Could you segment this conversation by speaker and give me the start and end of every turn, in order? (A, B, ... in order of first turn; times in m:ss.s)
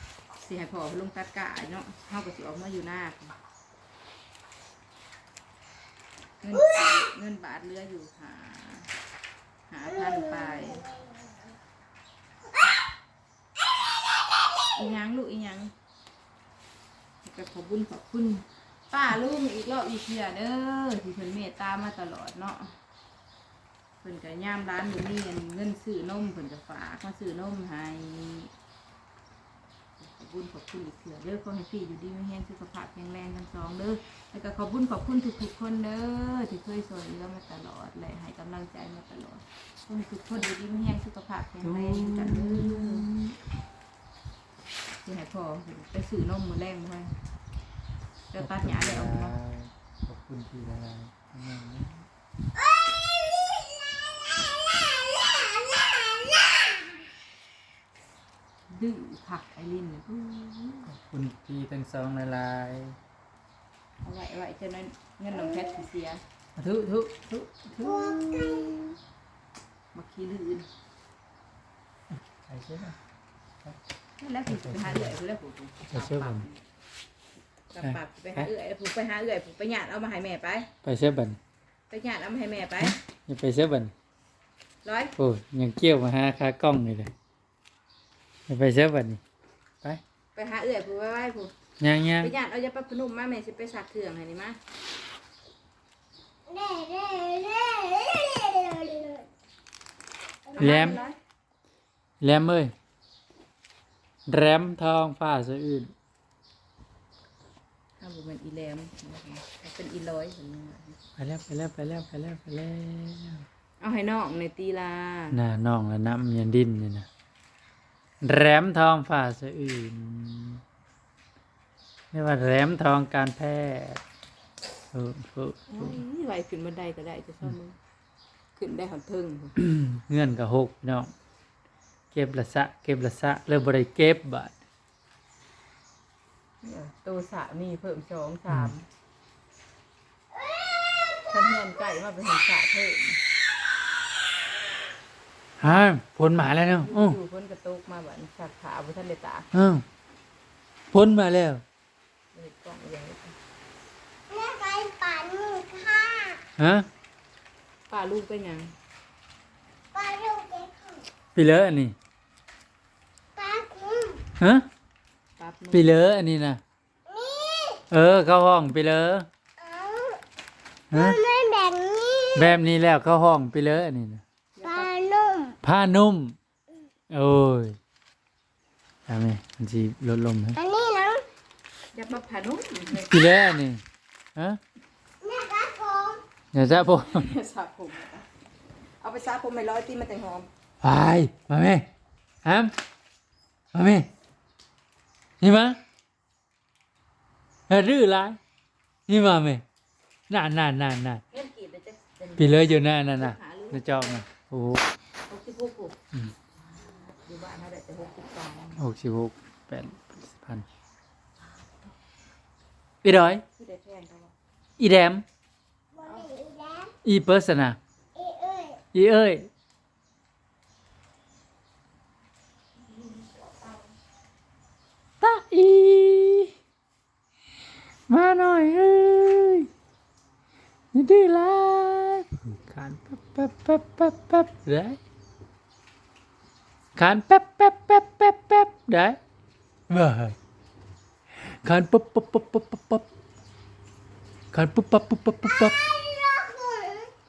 0:00.4-0:03.4 A
0:06.4-0:08.9 A
0:09.7-0:10.9 A
0:14.7-0:15.7 A
0:17.2-0:22.8 A
0:24.0-0:28.5 A
0:30.0-0:43.1 A
0:41.6-0:43.3 B
0:45.0-0:47.1 A
0:48.3-0:49.4 A
0:48.4-0:52.1 B
0:58.7-1:00.9 A
1:00.9-1:03.0 B
1:04.0-1:06.2 A
1:06.6-1:09.0 B
1:09.9-1:10.7 A
1:12.1-1:13.0 B
1:14.2-1:16.6 A
1:14.5-1:15.2 B
1:15.9-1:16.4 B
1:17.7-1:20.7 A
1:17.8-1:18.5 B
1:20.8-1:21.4 B
1:21.9-1:23.0 A
1:22.8-1:23.9 B
1:24.8-1:25.1 A
1:25.2-1:27.1 B
1:28.5-1:29.2 B
1:30.4-1:31.5 A
1:31.8-1:32.3 B
1:32.2-1:34.6 A
1:36.5-1:39.2 C
1:40.5-1:41.2 A
1:40.6-1:41.0 B
1:42.2-1:42.7 B
1:44.3-1:45.9 B
1:48.0-1:51.0 A
1:51.2-1:53.4 B
1:53.8-1:55.4 A
1:55.3-1:57.1 B
1:58.2-2:00.6 B
2:02.1-2:04.0 B
2:04.9-2:06.0 B
2:05.7-2:07.8 A
2:08.6-2:09.6 A
2:09.6-2:11.1 B
2:12.1-2:14.5 B
2:16.6-2:18.9 A
2:21.2-2:23.2 A
2:25.6-2:27.2 B
2:26.7-2:29.5 A
2:29.5-2:29.8 B
2:30.9-2:31.6 B
2:32.3-2:33.4 A
2:34.3-2:36.4 C
2:36.6-2:36.9 B
2:37.9-2:38.7 A
2:39.9-2:41.0 C
2:41.4-2:42.0 B
2:43.4-2:44.2 C
2:44.4-2:44.7 B
2:45.4-2:46.0 A
2:45.7-2:46.6 B
2:47.1-2:47.8 C
2:47.9-2:49.3 B
2:49.6-2:50.2 C
2:50.9-2:51.2 B
2:50.9-2:52.5 C
2:52.3-2:54.2 B
2:54.6-2:54.9 A
2:54.6-2:55.6 C
2:55.6-2:56.4 B
2:57.1-2:57.8 B
2:59.1-3:00.6 B
3:00.6-3:01.2 C
3:01.9-3:03.2 A
3:02.9-3:03.8 B
3:05.2-3:06.2 C
3:06.5-3:07.3 B
3:06.8-3:08.3 A
3:09.0-3:10.5 A
3:10.8-3:11.9 B
3:12.4-3:12.7 B
3:13.7-3:14.1 B
3:15.4-3:15.8 B
3:17.7-3:18.4 B
3:19.1-3:19.6 B
3:20.3-3:21.2 B
3:21.3-3:24.2 A
3:22.4-3:24.9 B
3:25.3-3:26.0 A
3:26.6-3:28.8 A
3:28.8-3:30.7 B
3:31.4-3:31.9 A
3:33.0-3:33.4 B
3:33.6-3:34.3 A
3:34.8-3:35.2 B
3:36.0-3:36.9 C
3:36.0-3:36.4 A
3:37.0-3:37.8 B
3:38.2-3:38.8 C
3:38.9-3:39.5 B
3:45.2-3:46.5 B
3:48.1-3:49.7 B
3:50.9-3:55.0 B
3:57.0-3:59.2 B
3:59.9-4:00.4 B
4:01.4-4:03.1 B
4:04.5-4:05.8 B
4:05.7-4:07.1 C